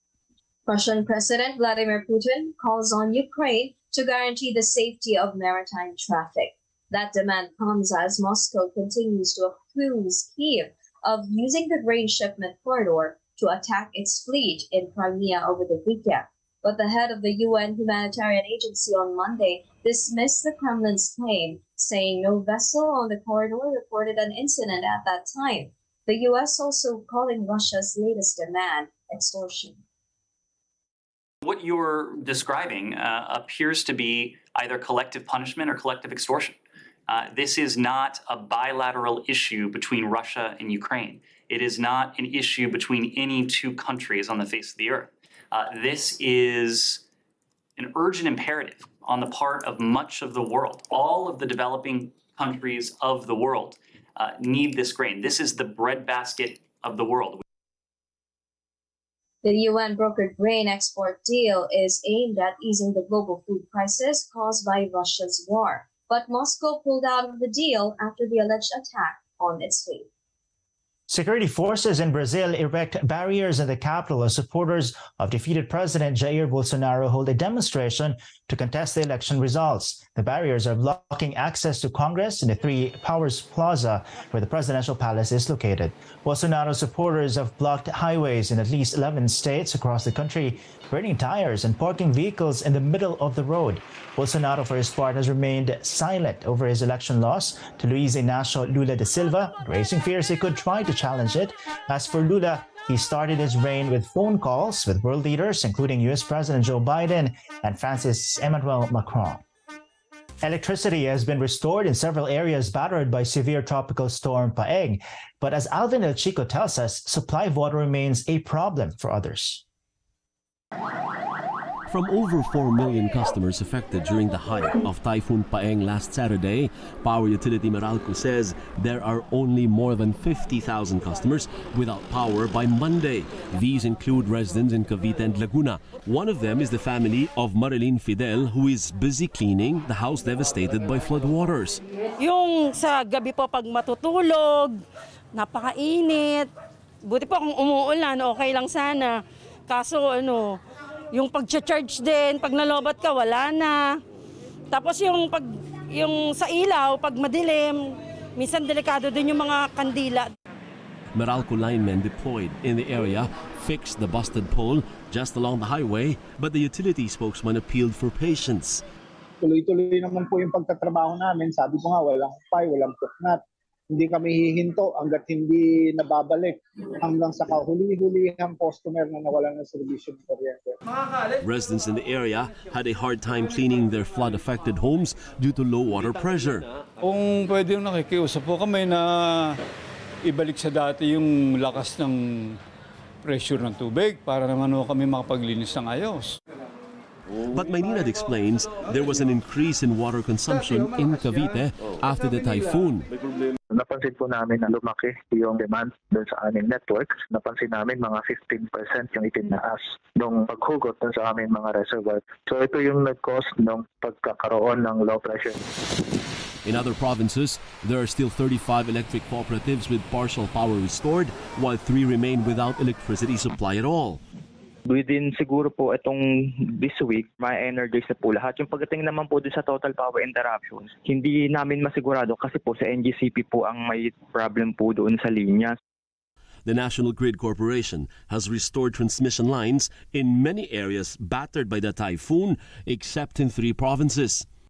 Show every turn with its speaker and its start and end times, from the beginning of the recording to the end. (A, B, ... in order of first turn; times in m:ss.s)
0:00.7-0:29.8 A
0:31.4-0:36.6 B
0:37.1-0:47.0 B
0:47.8-0:57.4 B
0:59.4-1:10.1 A
1:11.1-1:49.4 C
1:50.4-1:59.6 C
2:01.9-2:21.8 D
2:22.2-2:24.8 E
2:25.3-2:26.5 E
2:27.0-2:30.6 E
2:31.1-2:33.9 E
2:34.7-2:40.3 E
2:41.2-2:48.8 D
2:49.4-3:00.8 F
3:01.4-3:06.7 D
3:07.0-3:09.5 G
3:10.2-3:12.6 G
3:13.2-3:16.3 G
3:17.4-3:23.1 D
3:23.7-3:35.6 H
3:36.6-3:44.2 D
3:44.9-3:55.8 I
3:56.6-4:04.5 D